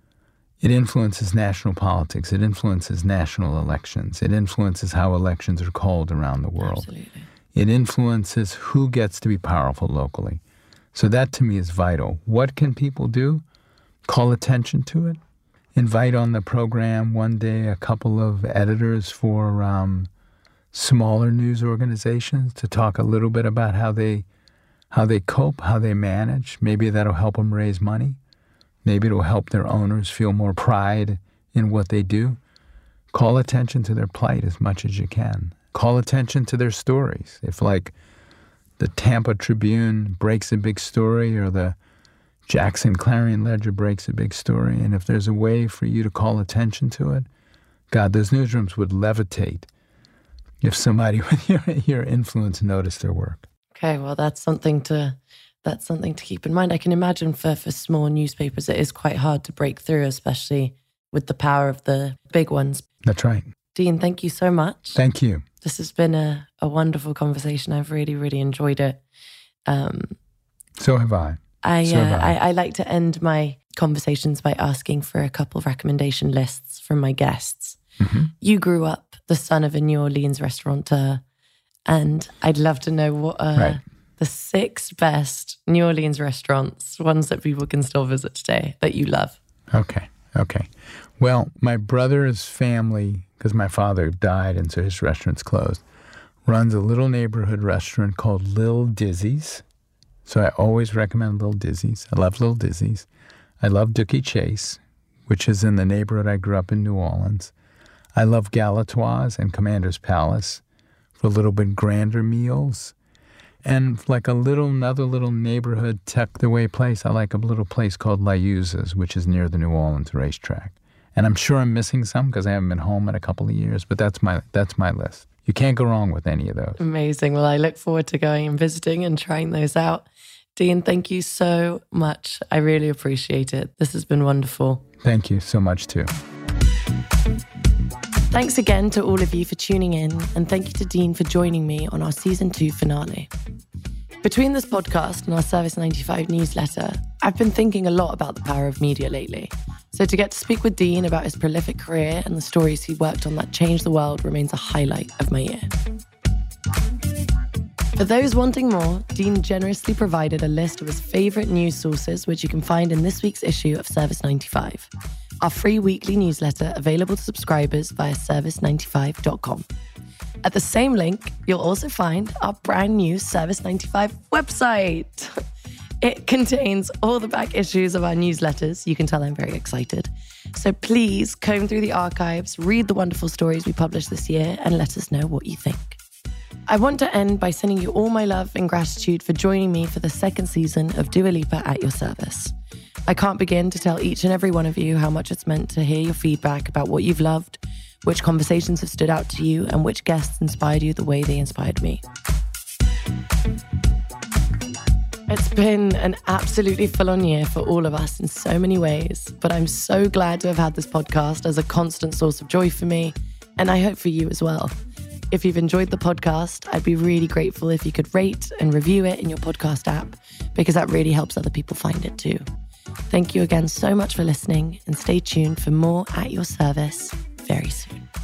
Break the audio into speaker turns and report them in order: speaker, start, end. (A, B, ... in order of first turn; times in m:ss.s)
0:00.6-0:06.9 A
0:06.6-0:07.3 B
0:07.5-0:10.4 A
0:10.9-0:13.4 A
0:14.0-0:15.2 A
0:15.7-0:20.1 A
0:20.7-0:24.2 A
0:24.9-0:28.2 A
0:28.8-0:32.4 A
0:33.1-0:37.9 A
0:38.8-0:41.8 A
0:42.4-0:47.3 A
0:47.9-0:49.7 A
0:50.6-0:53.4 A
0:53.7-1:02.8 B
1:03.0-1:03.5 A
1:03.7-1:05.0 B
1:04.9-1:05.4 A
1:05.6-1:09.0 B
1:09.7-1:10.2 B
1:10.8-1:12.4 A
1:11.6-1:17.8 B
1:18.0-1:18.3 A
1:18.4-1:21.2 B
1:21.9-1:29.4 B
1:23.5-1:23.8 A
1:29.7-1:35.8 A
1:36.4-1:39.6 A
1:40.2-1:43.1 A
1:43.6-1:47.5 A
1:48.1-1:50.6 A
1:51.2-1:52.9 A
1:53.6-2:06.8 A
2:06.8-2:14.8 B
2:15.0-2:16.1 A
2:18.3-2:23.3 B
2:24.2-2:35.7 B
2:38.0-2:44.9 B
2:45.4-2:49.6 B
2:50.4-2:55.3 B
2:56.0-3:06.0 B
3:06.7-3:12.5 B
3:13.1-3:22.0 B
3:25.3-3:34.7 B
3:35.3-3:42.4 B
3:43.1-3:48.0 B